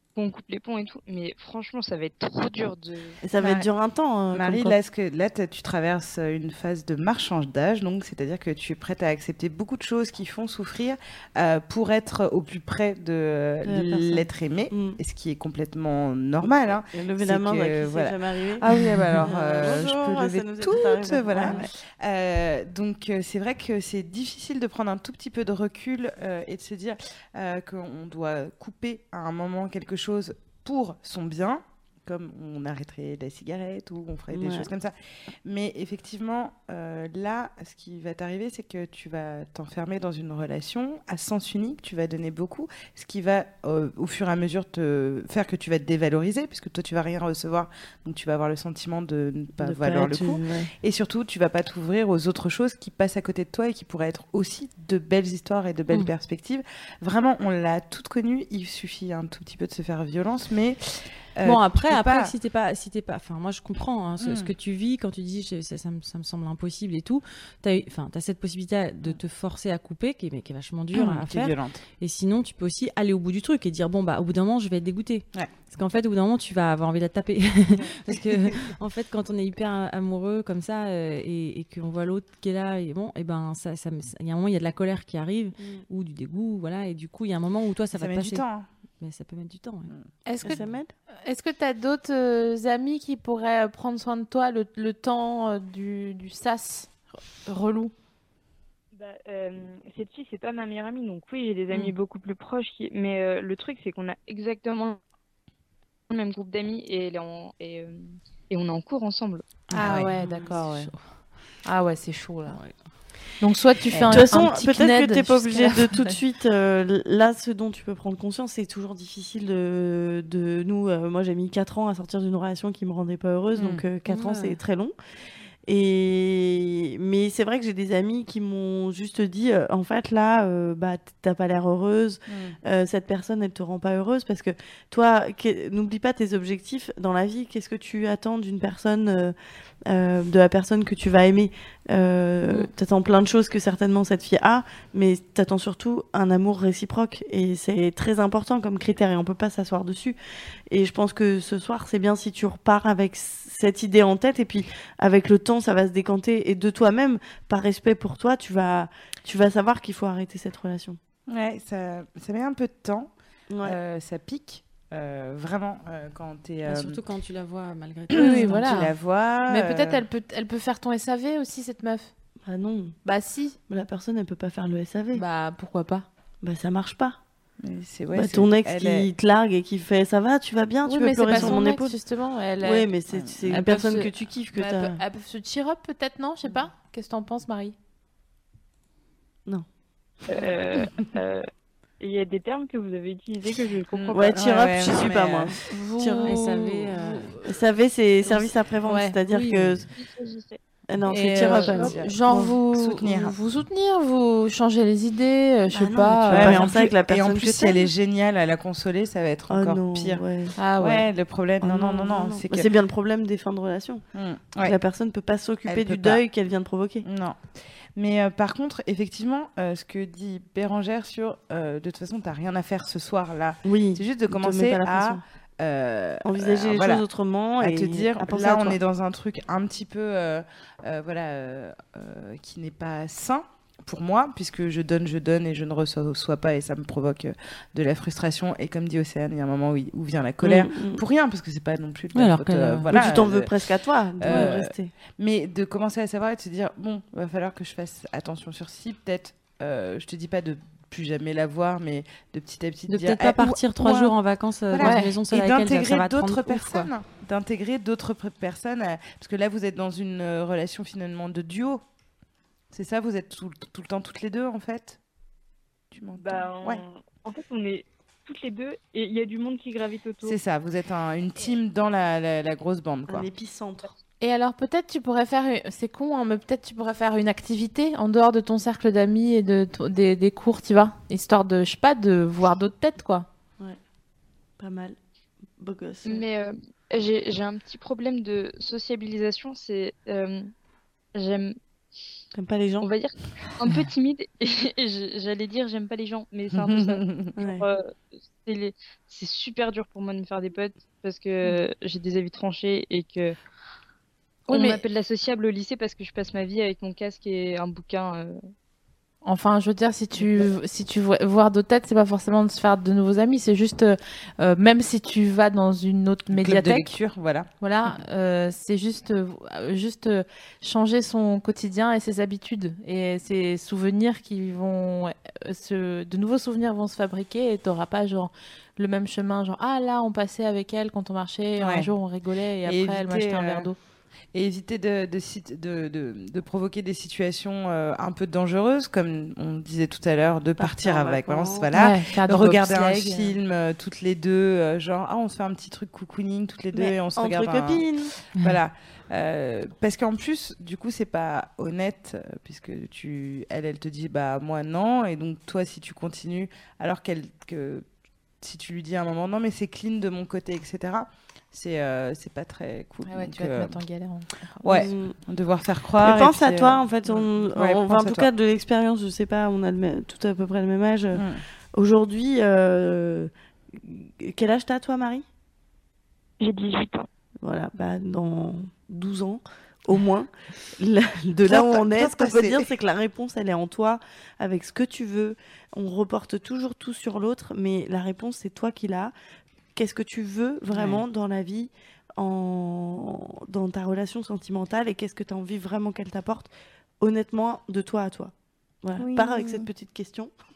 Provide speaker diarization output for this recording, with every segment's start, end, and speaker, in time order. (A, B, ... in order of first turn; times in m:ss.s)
0:00.2-0:03.2 A
0:03.2-0:04.8 B
0:03.4-0:03.7 C
0:04.3-1:02.3 C
0:13.7-0:15.0 B
0:16.9-0:18.6 B
0:19.2-0:21.7 B
0:34.3-0:34.7 B
0:49.6-0:50.7 B
1:01.4-1:28.4 D
1:04.2-1:04.5 C
1:10.9-1:11.8 C
1:27.9-1:28.7 C
1:29.0-1:29.9 D
1:30.3-1:30.6 E
1:30.4-1:30.9 B
1:31.2-1:37.9 E
1:38.9-1:45.0 A
1:46.1-1:49.5 A
1:49.7-1:51.0 D
1:49.7-1:50.9 E
1:51.6-1:52.6 E
1:53.4-1:56.2 E
1:53.9-1:54.3 C
1:54.1-2:04.9 B
2:03.6-2:03.8 C
2:04.1-2:04.6 D
2:05.7-2:19.4 B
2:12.3-2:12.6 C
2:19.9-2:30.2 B
2:30.7-2:41.0 B
2:41.3-2:43.1 C
2:43.5-2:43.8 B
2:43.6-2:47.0 C
2:46.7-2:48.7 D
2:48.1-2:50.0 C
2:48.1-2:48.9 E
2:49.5-2:52.1 E
2:52.4-2:53.0 B
2:53.0-2:53.6 E
2:53.7-2:55.2 B
2:55.1-2:56.1 E
2:56.4-2:57.2 B
2:57.6-2:59.1 C
2:58.1-3:02.0 B
3:00.8-3:02.9 E
3:01.3-3:01.6 C
3:02.6-3:05.0 B
3:03.1-3:03.4 C
3:03.5-3:07.8 E
3:10.3-3:11.5 A
3:12.0-3:14.4 A
3:13.9-3:15.6 C
3:14.1-3:16.4 B
3:15.7-3:17.5 E
3:16.2-3:17.3 D
3:17.4-3:19.9 B
3:18.3-3:19.2 E
3:19.3-3:19.8 D
3:20.0-3:20.6 A
3:20.9-3:22.6 B
3:21.1-3:26.7 E
3:21.5-3:22.1 C
3:22.7-3:23.3 C
3:25.7-3:27.9 B
3:26.3-3:30.2 C
3:29.5-3:30.5 B
3:30.6-3:31.1 E
3:30.8-3:32.7 C
3:31.6-3:34.0 B
3:34.1-3:34.8 C
3:34.6-3:37.0 B
3:35.6-3:36.2 C
3:37.0-3:47.0 C
3:43.6-3:45.2 B
3:46.2-3:48.8 B
3:47.6-4:03.5 C
4:00.4-4:01.0 B
4:02.1-4:03.0 D
4:02.9-4:04.9 B
4:04.2-4:14.2 C
4:12.9-4:16.9 D
4:14.7-4:21.8 C
4:14.8-4:15.1 E
4:22.7-4:25.0 C
4:25.9-4:26.8 C
4:26.2-4:30.4 A
4:30.2-4:33.3 C
4:33.1-4:33.9 B
4:34.2-4:43.3 E
4:44.6-4:45.0 B
4:45.6-4:46.2 B
4:46.0-4:50.5 A
4:51.2-4:51.6 A
4:52.3-4:52.9 B
4:52.8-5:03.4 A
4:56.5-4:57.3 C
4:57.4-4:57.6 B
5:04.5-5:08.4 A
5:04.5-5:04.8 E
5:09.2-5:16.9 E
5:16.3-5:17.5 C
5:17.6-5:33.8 E
5:31.6-5:31.9 C
5:32.6-5:33.7 C
5:34.3-5:57.9 C
5:40.6-5:41.7 B
5:41.7-5:43.4 E
5:46.7-5:48.1 B
5:58.4-6:03.8 C
6:03.1-6:04.6 E
6:04.6-6:08.3 C
6:04.6-6:05.2 B
6:06.0-6:15.2 B
6:11.1-6:11.4 C
6:16.4-6:17.1 A
6:17.4-6:29.1 B
6:21.5-6:22.7 C
6:29.8-6:40.3 B
6:30.7-6:31.0 C
6:39.0-6:39.7 C